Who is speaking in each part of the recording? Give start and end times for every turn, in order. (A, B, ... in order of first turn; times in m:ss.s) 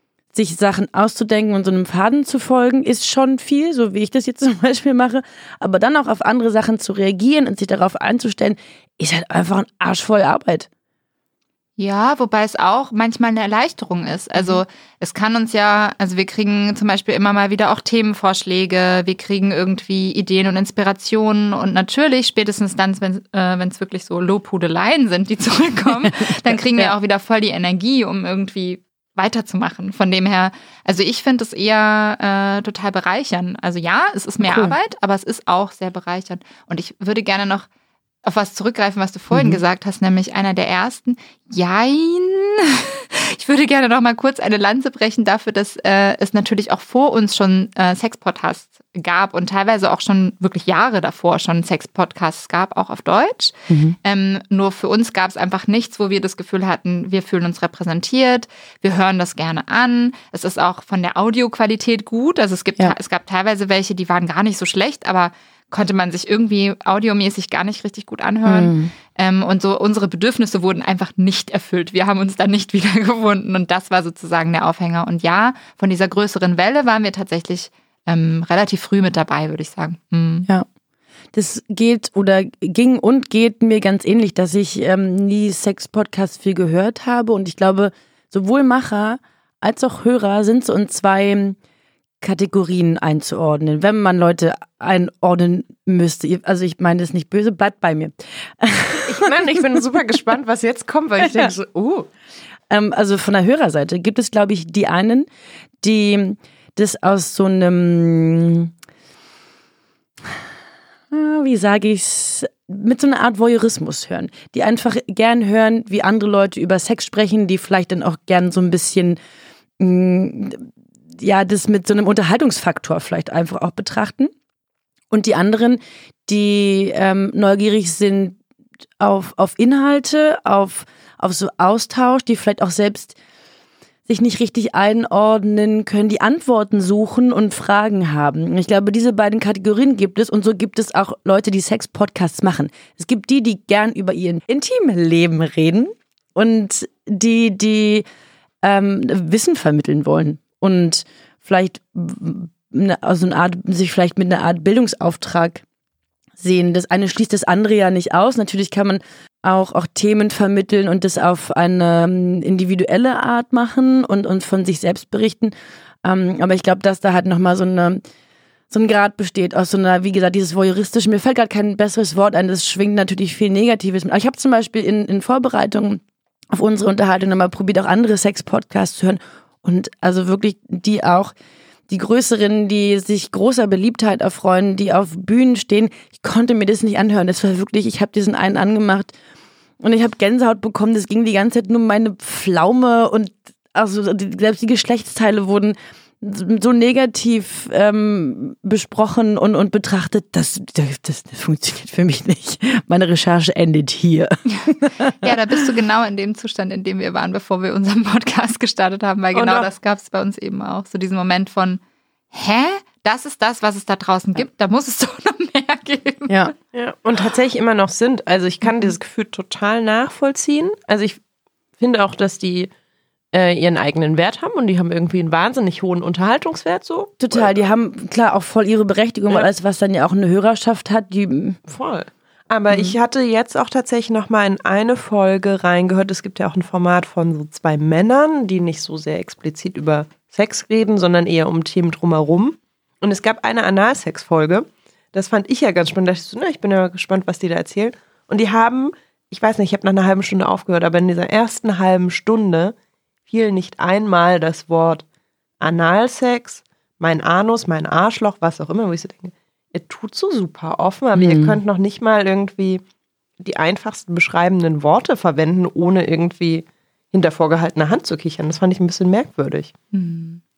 0:00.3-0:10.7 A
0:11.8-0:37.7 B
0:26.3-0:26.9 A
0:34.4-0:34.7 A
0:38.2-1:20.5 B
0:39.3-0:39.6 A
0:53.7-0:54.0 A
1:08.4-1:08.9 A
1:21.3-1:31.6 A
1:32.2-1:39.2 A
1:39.0-1:42.1 C
1:41.2-1:41.5 A
1:42.7-1:45.3 A
1:45.8-1:48.7 A
1:51.1-1:59.2 A
1:59.8-2:04.3 A
2:05.1-2:08.4 A
2:09.0-2:13.1 A
2:14.1-2:28.0 A
2:28.6-2:35.6 A
2:36.4-2:48.0 A
2:48.7-3:01.3 A
3:01.9-3:09.1 A
3:09.8-3:25.3 A
3:25.2-3:31.8 B
3:29.3-3:29.7 C
3:32.3-3:36.5 B
3:36.7-3:41.2 C
3:41.8-3:42.7 C
3:43.3-3:47.5 C
3:47.2-3:51.6 A
3:51.7-4:12.7 C
4:13.3-4:15.0 C
4:15.6-4:22.8 C
4:21.1-4:21.6 A
4:23.4-4:29.7 C
4:29.9-4:30.4 B